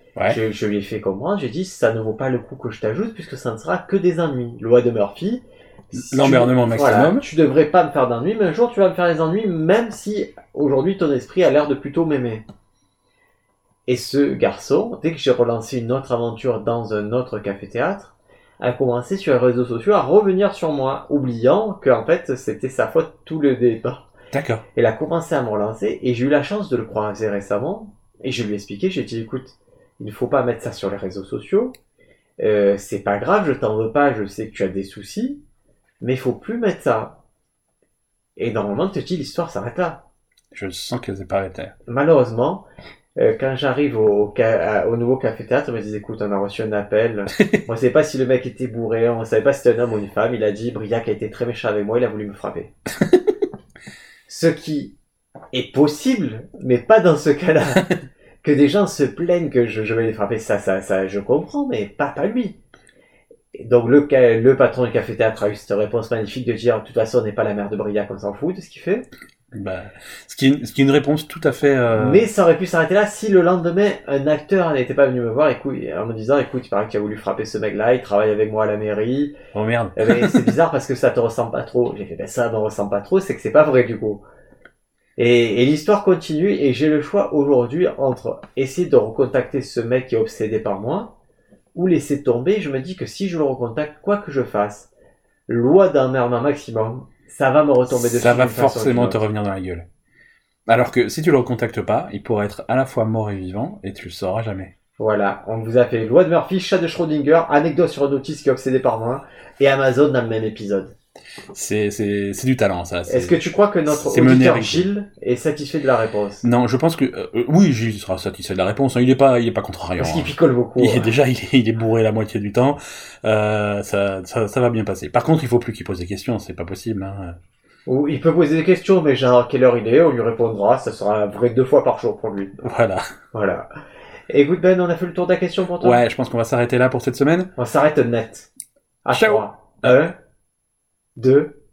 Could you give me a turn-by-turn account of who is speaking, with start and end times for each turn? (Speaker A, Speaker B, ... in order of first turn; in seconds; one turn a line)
Speaker A: 0.3-12.4
Speaker B: 6.0-7.2
Speaker A: 13.9-24.1
Speaker B: 24.3-24.6
Speaker A: 24.7-31.8
Speaker A: 32.4-35.4
Speaker A: 36.0-37.2
Speaker A: 38.4-40.0
Speaker B: 40.5-41.7
Speaker A: 41.9-42.6
Speaker A: 43.2-52.7
Speaker A: 54.3-55.0
Speaker A: 55.5-57.9
Speaker A: 58.4-62.6
Speaker A: 63.5-69.1
Speaker B: 69.5-72.3
Speaker A: 71.9-79.4
Speaker B: 79.5-80.5
Speaker A: 80.0-84.2
Speaker A: 85.2-91.1
Speaker A: 91.7-94.9
Speaker A: 95.5-99.2
Speaker B: 97.9-99.9
Speaker B: 100.7-104.7
Speaker A: 105.0-110.9
Speaker B: 111.5-114.9
Speaker A: 113.1-116.4
Speaker B: 116.4-127.4
Speaker A: 120.0-121.1
Speaker A: 127.9-132.5
Speaker B: 132.6-133.1
Speaker A: 133.3-133.7
Speaker A: 134.3-136.0
Speaker B: 135.8-137.5
Speaker A: 137.6-138.5
Speaker A: 139.0-140.1
Speaker B: 139.1-139.9
Speaker A: 141.2-141.6